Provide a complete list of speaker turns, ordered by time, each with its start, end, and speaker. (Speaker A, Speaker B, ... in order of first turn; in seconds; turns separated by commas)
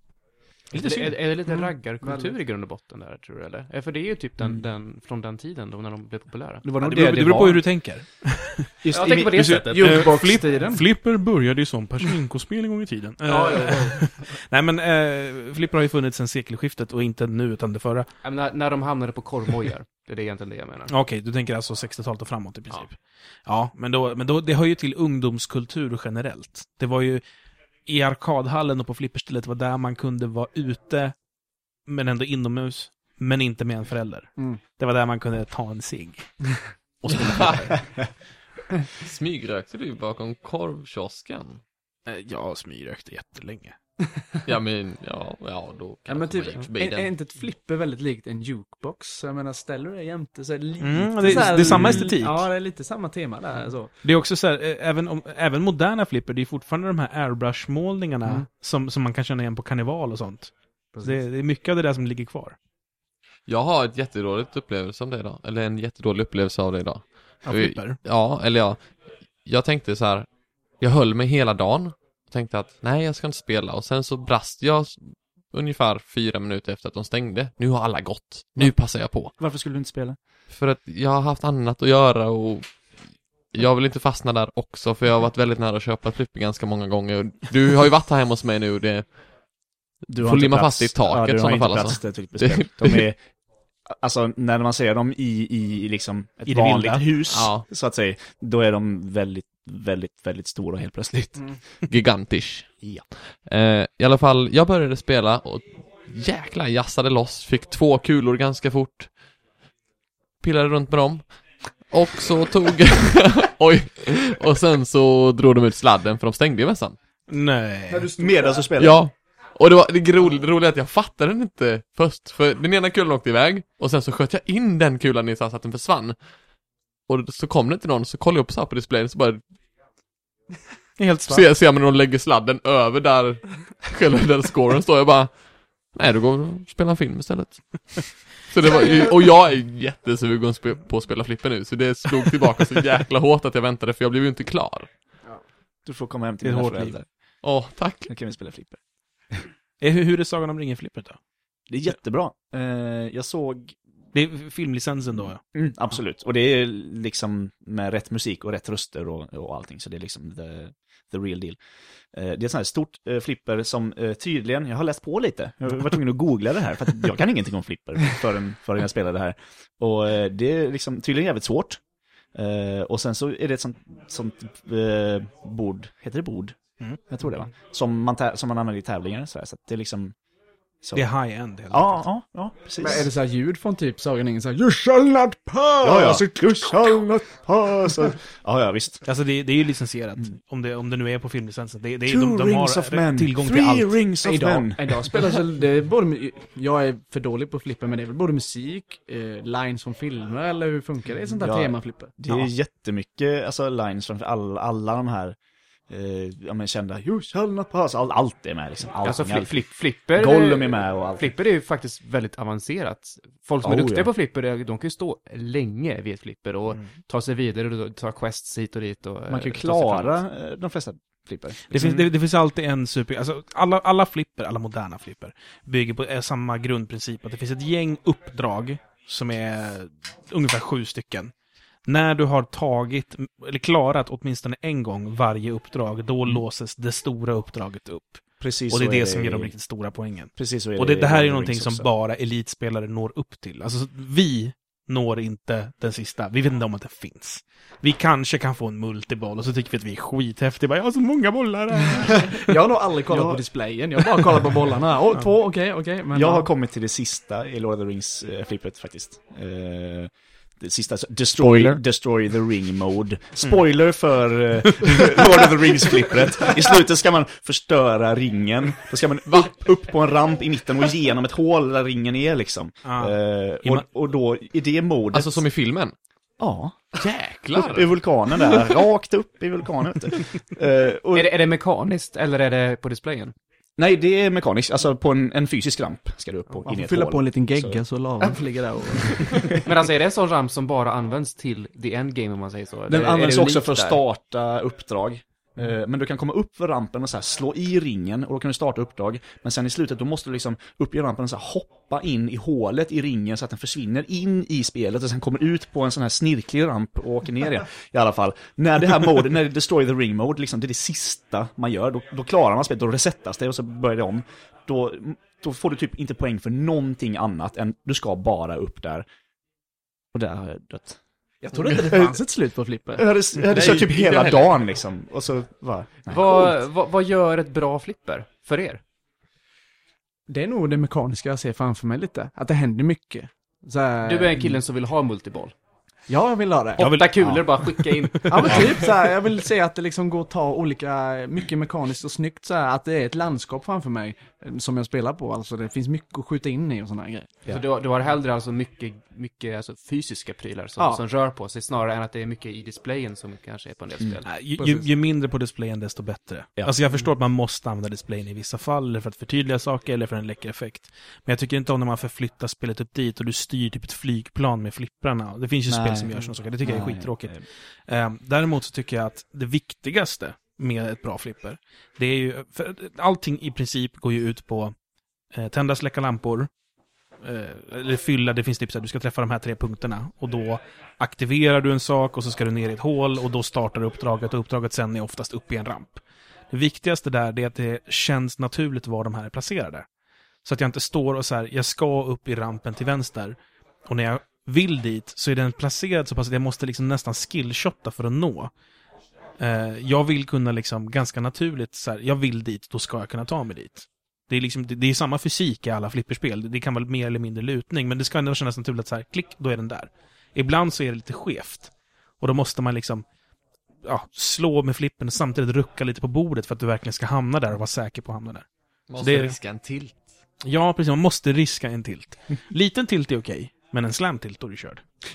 Speaker A: 0.7-1.2, Speaker B: 0.7-6.7, Speaker C: 2.0-2.3, Speaker D: 6.6-7.7, Speaker A: 6.8-8.7, Speaker D: 8.8-9.8, Speaker B: 8.9-10.1, Speaker A: 9.3-18.1, Speaker C: 9.6-10.8, Speaker B: 13.3-13.9, Speaker B: 18.2-20.9, Speaker A: 20.9-22.9, Speaker A: 23.5-27.2, Speaker A: 27.9-31.1, Speaker A: 31.9-36.3, Speaker A: 37.0-37.8, Speaker E: 37.1-37.6, Speaker E: 38.9-41.6, Speaker A: 42.1-43.8, Speaker E: 44.5-47.1, Speaker C: 46.1-53.9, Speaker A: 50.8-52.5, Speaker D: 51.3-52.1, Speaker A: 54.0-62.6, Speaker C: 60.9-61.2, Speaker E: 63.5-68.8, Speaker A: 67.4-68.0, Speaker E: 69.5-70.3, Speaker E: 70.8-79.3, Speaker D: 79.4-80.2, Speaker E: 80.5-82.7, Speaker E: 83.5-89.0, Speaker D: 90.1-93.2, Speaker E: 90.2-93.1, Speaker D: 93.9-101.5, Speaker A: 96.5-97.1, Speaker E: 97.3-97.7, Speaker E: 101.8-102.7, Speaker D: 102.8-103.1, Speaker E: 103.5-109.1, Speaker E: 110.4-111.3, Speaker E: 111.9-117.0, Speaker A: 117.3-118.1, Speaker C: 117.9-118.7, Speaker D: 118.0-119.0, Speaker E: 118.8-126.2, Speaker E: 127.1-129.4, Speaker A: 131.0-131.4, Speaker E: 131.3-135.3, Speaker E: 135.9-144.9, Speaker D: 145.8-147.1, Speaker A: 146.4-146.9, Speaker E: 147.4-148.1, Speaker D: 148.1-148.8, Speaker A: 149.8-151.2, Speaker D: 151.7-153.8, Speaker A: 154.1-155.4, Speaker D: 155.5-161.6, Speaker D: 162.1-171.8, Speaker D: 172.3-176.6, Speaker D: 177.1-180.1, Speaker D: 180.8-181.1, Speaker A: 180.9-182.0, Speaker D: 181.7-183.1, Speaker C: 182.8-187.0, Speaker D: 185.8-189.0, Speaker A: 189.0-194.0, Speaker D: 192.1-195.2, Speaker C: 194.2-202.2, Speaker D: 201.4-205.3, Speaker D: 205.9-211.3, Speaker B: 209.0-220.2, Speaker D: 213.6-214.1, Speaker D: 219.3-222.1, Speaker A: 221.7-231.3, Speaker A: 231.8-252.5, Speaker D: 238.4-239.5, Speaker D: 240.4-241.9, Speaker C: 252.3-256.5, Speaker D: 253.1-253.4, Speaker D: 256.1-275.4, Speaker A: 264.6-265.4, Speaker A: 272.8-273.9, Speaker E: 275.1-275.9, Speaker D: 276.4-277.0, Speaker E: 276.9-278.8, Speaker D: 277.5-281.3, Speaker B: 281.1-283.3, Speaker D: 283.8-288.4, Speaker C: 286.6-289.5, Speaker D: 289.0-289.6, Speaker B: 289.6-294.0, Speaker D: 292.9-319.1, Speaker D: 320.1-321.0, Speaker C: 321.4-323.1, Speaker D: 321.8-322.2, Speaker D: 322.9-326.6, Speaker E: 323.4-324.6, Speaker B: 326.1-328.8, Speaker C: 330.3-334.6, Speaker B: 334.0-335.5, Speaker C: 336.1-336.9, Speaker B: 336.8-338.9, Speaker A: 336.8-338.6, Speaker D: 337.2-337.5, Speaker C: 338.3-347.4, Speaker B: 347.5-354.2, Speaker A: 354.2-367.4, Speaker C: 354.6-354.9, Speaker D: 365.7-367.4, Speaker A: 367.9-374.7, Speaker A: 375.3-376.5, Speaker A: 377.2-389.9, Speaker A: 390.4-398.5, Speaker A: 399.4-413.0, Speaker A: 413.8-418.4, Speaker E: 418.9-420.0, Speaker A: 419.0-419.4, Speaker A: 420.4-424.8